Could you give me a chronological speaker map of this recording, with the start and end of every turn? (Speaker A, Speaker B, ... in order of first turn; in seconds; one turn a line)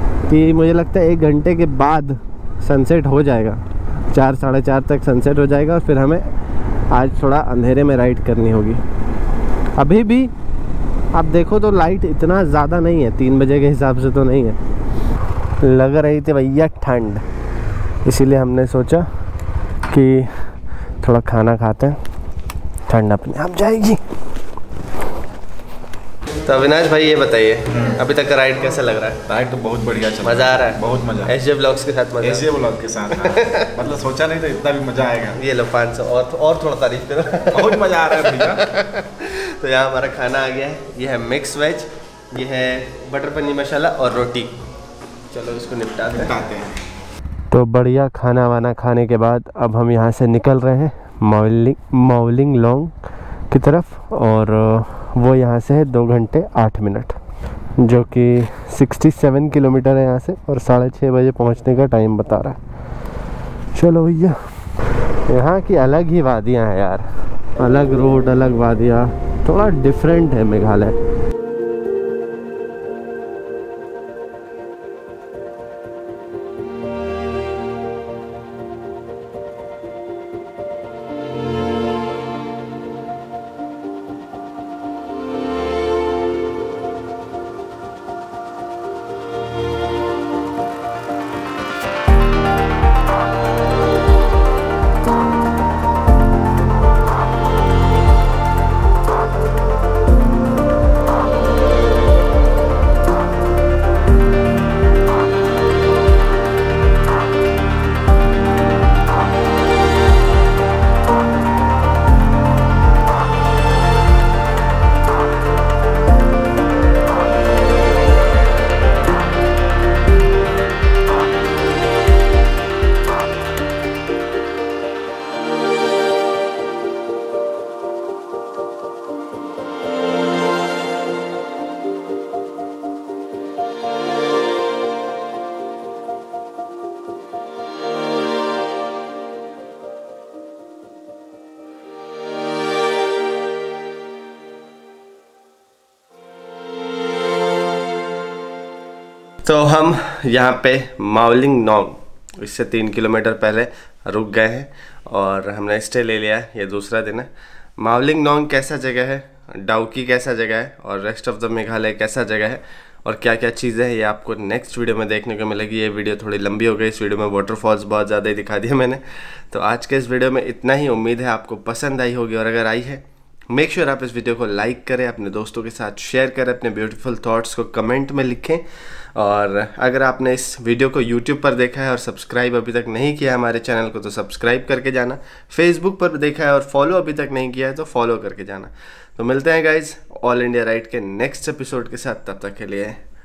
Speaker A: 0.3-6.3
Speaker A: 6.9-8.8
Speaker A: 9.8-10.3
Speaker A: 11.1-14.6
Speaker A: 15.6-17.2
Speaker A: 18.0-19.1
Speaker A: 19.9-20.5
Speaker A: 21.0-22.0
Speaker A: 22.9-24.0
Speaker A: 26.4-29.2
Speaker B: 29.3-31.3
Speaker A: 30.2-32.5
Speaker B: 32.2-35.4
Speaker A: 33.1-33.7
Speaker A: 35.3-44.6
Speaker B: 37.5-38.6
Speaker A: 45.3-46.4
Speaker B: 46.1-46.6
Speaker A: 47.5-52.9
Speaker A: 53.5-57.2
Speaker A: 57.8-62.6
Speaker A: 63.7-64.4
Speaker A: 65.3-71.0
Speaker A: 149.4-193.0